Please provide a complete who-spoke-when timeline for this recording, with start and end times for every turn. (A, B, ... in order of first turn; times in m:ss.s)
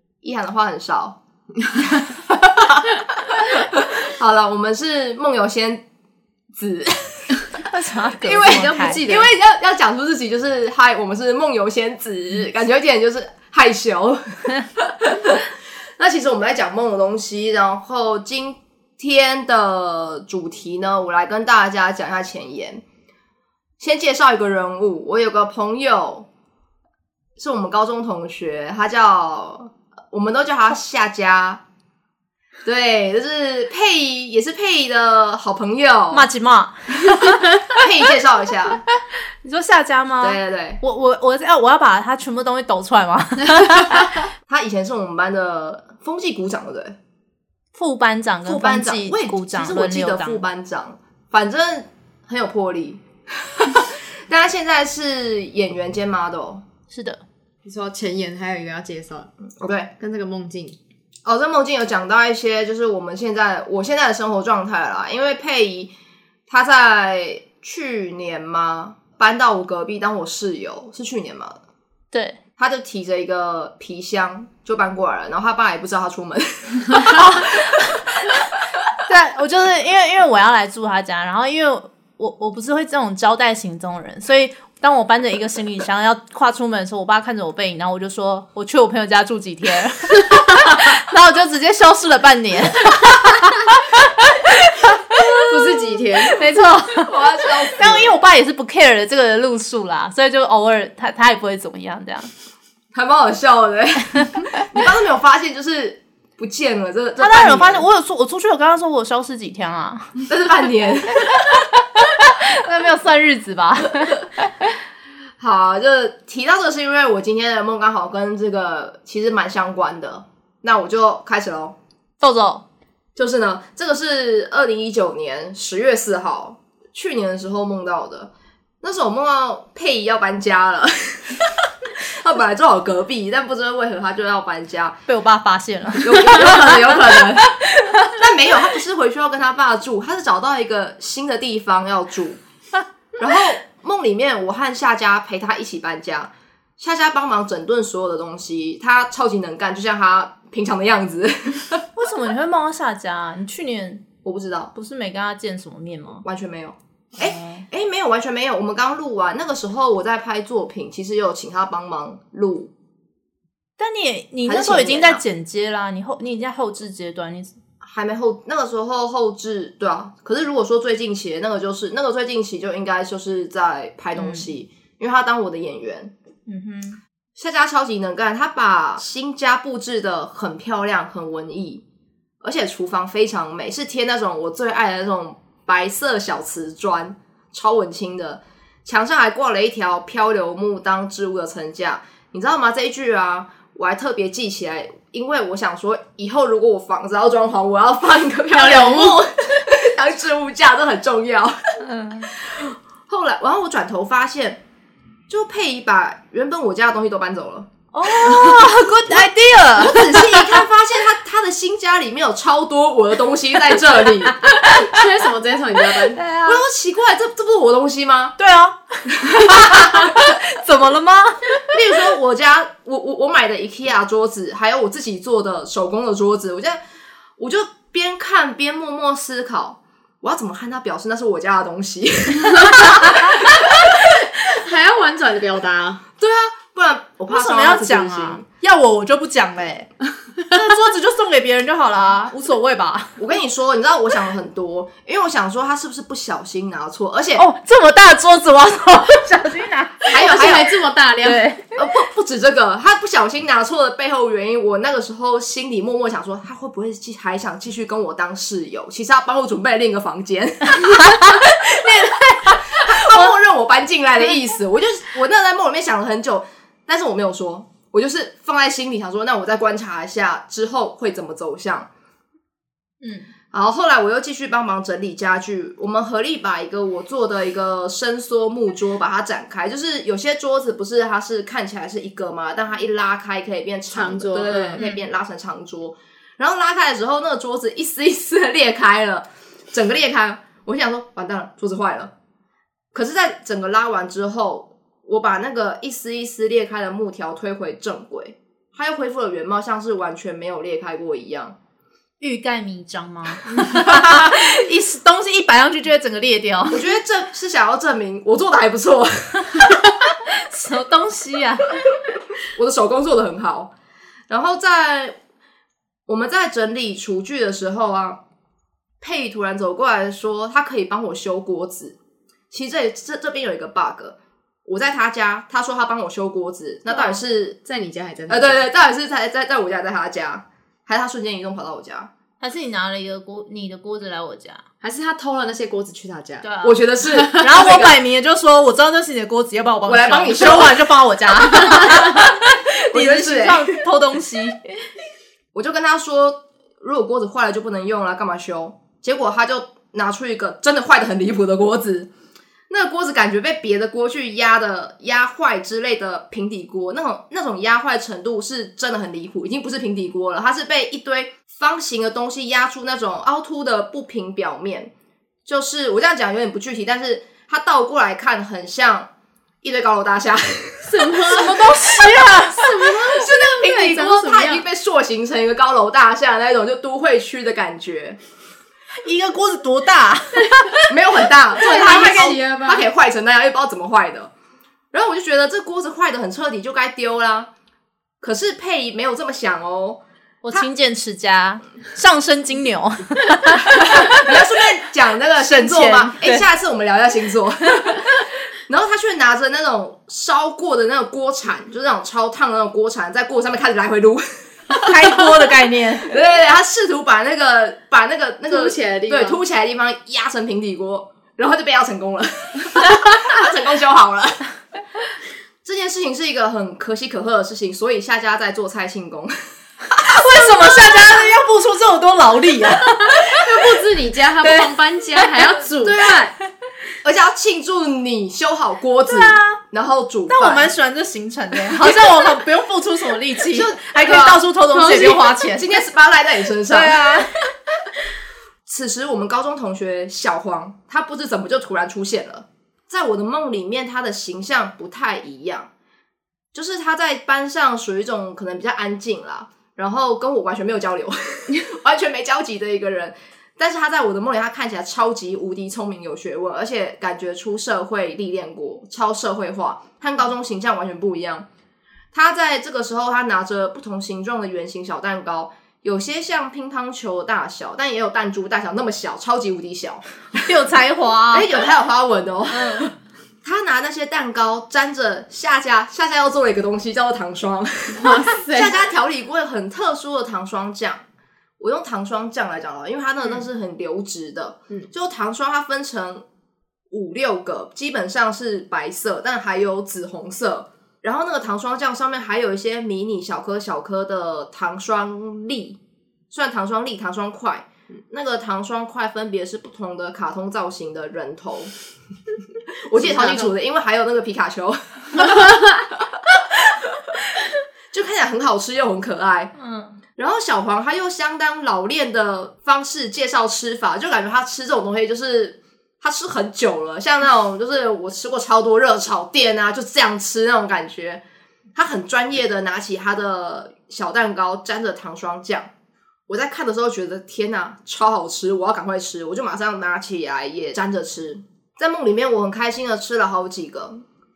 0:00.2-0:01.2 A
0:03.9-0:05.8 A
0:06.5-0:07.4 A
0:07.6-0:09.0 B
0:08.2-0:15.5 A
0:08.3-0:09.3 C
0:16.0-0:22.8 A
0:23.8-0:26.3 A
0:27.4-0:31.6 A
0:32.6-0:36.3 A
0:36.1-0:37.8 B
0:37.7-0:38.8 A
0:39.4-0:44.2 B
0:40.2-0:40.8 A
0:44.5-0:47.0 A
0:47.7-0:50.4 B
0:48.4-0:56.6 A
0:56.9-0:57.2 B
0:57.6-0:59.3 C
0:59.6-0:59.9 A
1:00.0-1:00.8 C
1:01.2-1:05.9 A
1:06.5-1:11.6 A
1:12.1-1:12.4 B
1:12.6-1:17.8 A
1:16.9-1:17.9 B
1:19.0-1:35.5 B
1:35.3-1:36.4 C
1:36.2-1:37.1 B
1:37.0-1:38.2 A
1:37.7-1:42.3 B
1:42.9-1:47.8 A
1:44.2-1:44.4 B
1:47.2-1:50.1 B
1:50.3-1:51.6 A
1:51.3-1:54.8 B
1:55.4-2:01.8 A
2:02.2-2:02.6 B
2:03.2-2:15.0 A
2:15.1-2:18.2 B
2:16.0-2:22.4 A
2:23.2-2:31.8 A
2:32.0-2:34.0 B
2:34.2-2:34.7 A
2:34.7-2:36.2 B
2:36.2-2:42.7 A
2:37.3-2:37.6 B
2:43.8-2:47.5 B
2:44.4-2:45.2 A
2:47.8-2:56.1 A
2:54.2-2:54.5 B
2:56.5-2:57.0 B
2:57.4-3:01.8 A
3:02.4-3:21.6 A
3:18.5-3:19.2 B
3:21.8-3:22.3 B
3:22.4-3:24.6 A
3:25.3-3:28.7 A
3:27.9-3:30.5 B
3:29.8-3:34.4 A
3:34.4-3:34.9 B
3:34.7-3:36.2 C
3:36.1-3:36.6 B
3:36.4-3:38.4 A
3:38.4-3:41.7 B
3:39.1-3:40.3 A
3:41.7-3:46.8 A
3:47.4-3:54.0 A
3:52.8-3:53.2 B
3:54.4-3:56.0 C
3:56.2-3:58.4 A
3:57.3-3:59.9 B
4:00.4-4:03.2 B
4:03.2-4:07.4 A
4:07.3-4:10.2 B
4:10.1-4:10.8 A
4:10.1-4:11.4 C
4:11.2-4:11.8 B
4:11.7-4:31.9 A
4:20.9-4:21.3 B
4:22.5-4:23.3 B
4:33.0-4:33.3 B
4:33.5-4:52.1 A
4:43.9-4:44.8 C
4:52.9-5:01.6 A
5:02.2-5:06.9 B
5:06.7-5:09.8 A
5:10.2-5:11.8 B
5:12.5-5:13.7 A
5:14.3-5:15.2 A
5:16.1-5:18.2 A
5:19.0-5:22.0 A
5:22.5-5:27.6 A
5:27.6-5:28.6 C
5:28.3-5:32.1 A
5:32.4-5:34.6 B
5:34.8-5:36.5 C
5:36.4-5:44.7 B
5:36.6-5:38.0 A
5:39.8-5:40.8 A
5:41.6-5:42.2 A
5:42.9-5:43.6 A
5:45.5-5:52.1 A
5:52.7-6:04.9 A
6:05.4-6:09.1 A
6:09.6-6:12.2 A
6:10.8-6:11.6 C
6:11.2-6:12.7 B
6:12.5-6:14.6 C
6:12.8-6:18.2 A
6:19.0-6:20.9 B
6:20.9-6:24.3 A
6:21.6-6:22.9 C
6:21.6-6:22.3 B
6:24.9-6:27.5 A
6:28.2-6:30.0 A
6:30.4-6:34.3 B
6:33.7-6:45.2 A
6:35.4-6:36.4 B
6:44.8-6:46.1 B
6:46.0-6:54.4 A
6:48.5-6:49.4 C
6:55.6-6:59.3 A
6:59.9-7:03.6 B
7:03.1-7:06.3 C
7:04.4-7:05.5 B
7:05.8-7:06.2 A
7:07.0-7:10.7 A
7:09.1-7:09.6 B
7:10.3-7:15.8 B
7:13.5-7:17.2 A
7:16.7-7:17.4 B
7:18.6-7:25.7 A
7:26.5-7:41.4 A
7:42.1-7:50.5 A
7:50.4-7:51.6 B
7:51.3-8:01.0 A
7:52.5-7:52.9 B
7:58.0-7:58.8 C
8:01.6-8:06.2 A
8:06.9-8:15.8 A
8:16.3-8:21.7 A
8:22.9-8:27.3 A
8:23.0-8:23.5 B
8:27.9-8:29.5 A
8:29.6-8:30.0 B
8:30.2-8:41.2 A
8:41.7-8:45.7 A
8:46.3-8:54.0 A